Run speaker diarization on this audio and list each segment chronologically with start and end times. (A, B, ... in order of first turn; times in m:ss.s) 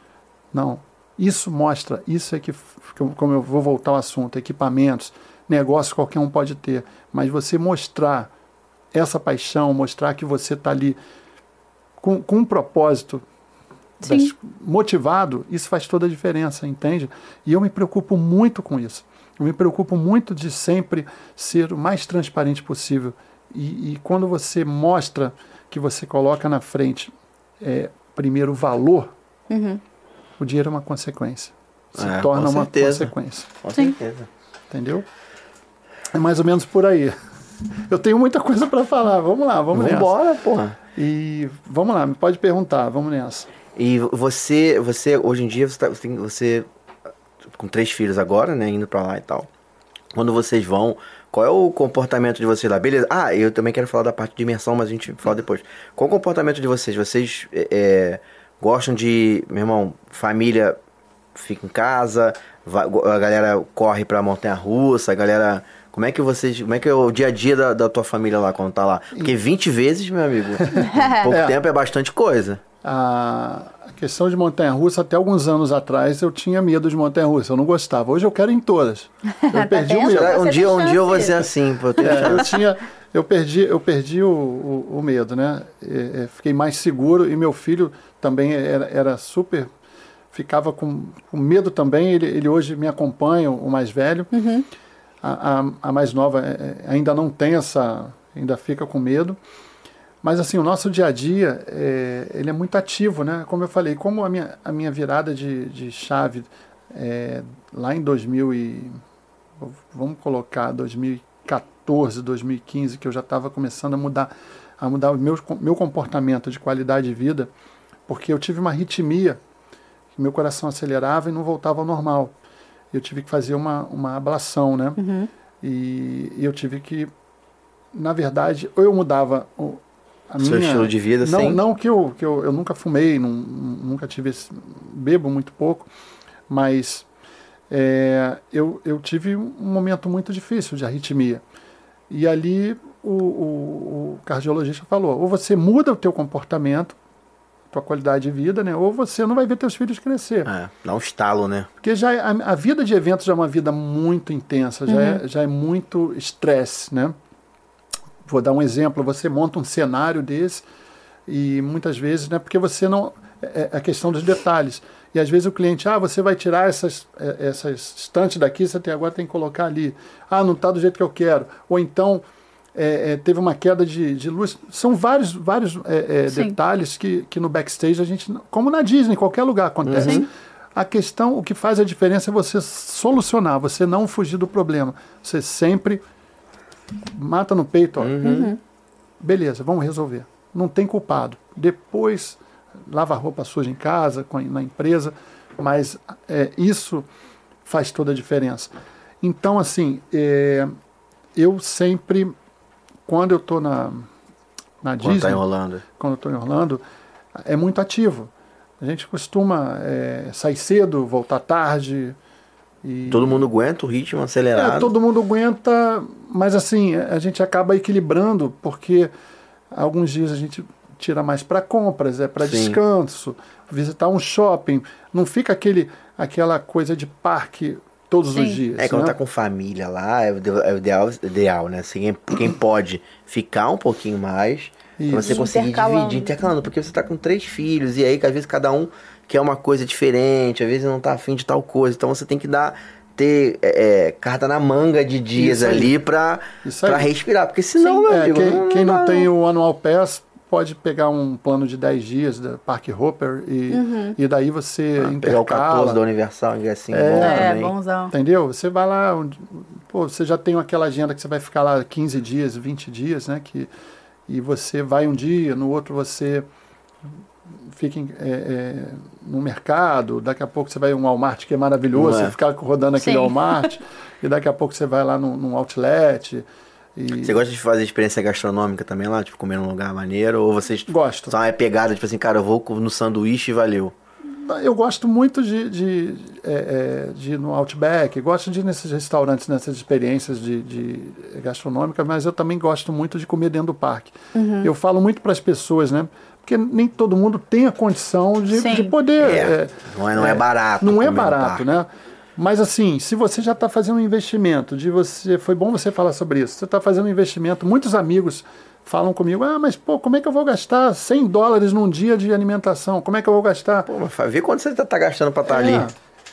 0:00.5-0:08.3 A
0:08.9-0:11.0 A
0:12.0-0:13.2 A
0:14.0-0:14.3 B
0:14.0-0:29.1 A
0:29.5-0:29.8 B
0:30.4-0:33.5 A
0:32.0-0:33.1 C
0:33.6-0:34.3 C
0:34.7-0:35.1 A
0:36.1-0:37.2 A
0:37.9-0:40.1 A
0:39.7-0:40.8 C
0:41.0-0:43.5 A
0:43.8-0:46.7 C
0:47.5-0:49.5 C
0:50.2-1:00.8 C
1:01.3-1:12.6 C
1:10.7-1:11.6 A
1:10.9-1:11.2 B
1:12.8-1:20.4 A
1:19.5-1:21.4 B
1:20.0-1:22.5 C
1:22.0-1:29.7 A
1:30.3-1:34.3 A
1:34.3-1:34.7 B
1:35.2-1:39.4 A
1:40.2-1:49.0 A
1:49.6-1:57.5 A
1:58.1-1:59.4 A
2:00.2-2:02.3 A
2:02.9-2:05.0 A
2:05.0-2:05.3 B
2:05.6-2:07.1 A
2:07.9-2:15.9 A
2:10.4-2:11.6 C
2:16.5-2:17.1 A
2:17.7-2:21.4 A
2:22.1-2:27.0 A
2:27.7-2:30.5 A
2:30.5-2:31.7 C
2:31.8-2:37.2 A
2:34.9-2:35.2 B
2:38.2-2:40.6 A
2:41.3-2:52.2 A
2:52.8-3:06.0 A
2:59.8-3:00.3 C
3:00.0-3:00.2 B
3:07.1-3:08.4 A
3:08.0-3:08.5 C
3:08.2-3:08.6 B
3:09.2-3:17.1 A
3:17.6-3:18.7 A
3:19.2-3:20.7 A
3:21.4-3:22.3 A
3:23.1-3:24.1 A
3:24.8-3:25.4 A
3:25.0-3:25.8 C
3:26.0-3:26.8 A
3:27.4-3:32.2 A
3:32.8-3:33.4 A
3:33.1-3:34.9 C
3:34.5-3:39.1 A
3:39.7-3:49.2 A
3:42.4-3:42.8 C
3:48.3-3:48.6 B
3:48.8-4:09.3 C
3:55.0-3:55.4 A
3:55.2-3:56.4 B
4:05.4-4:06.0 A
4:06.6-4:07.1 A
4:08.1-4:16.0 A
4:13.7-4:14.2 B
4:15.0-4:17.7 C
4:16.9-4:17.5 A
4:17.2-4:18.1 B
4:18.1-4:23.7 A
4:24.3-4:26.5 A
4:27.7-4:37.4 A
4:31.9-4:32.3 C
4:33.0-4:33.6 B
4:37.2-4:44.0 C
4:40.9-4:41.4 A
4:44.3-5:13.9 A
4:54.4-4:54.7 B
4:58.5-4:58.9 B
4:59.2-5:01.7 C
5:13.9-5:15.9 C
5:15.5-5:15.9 A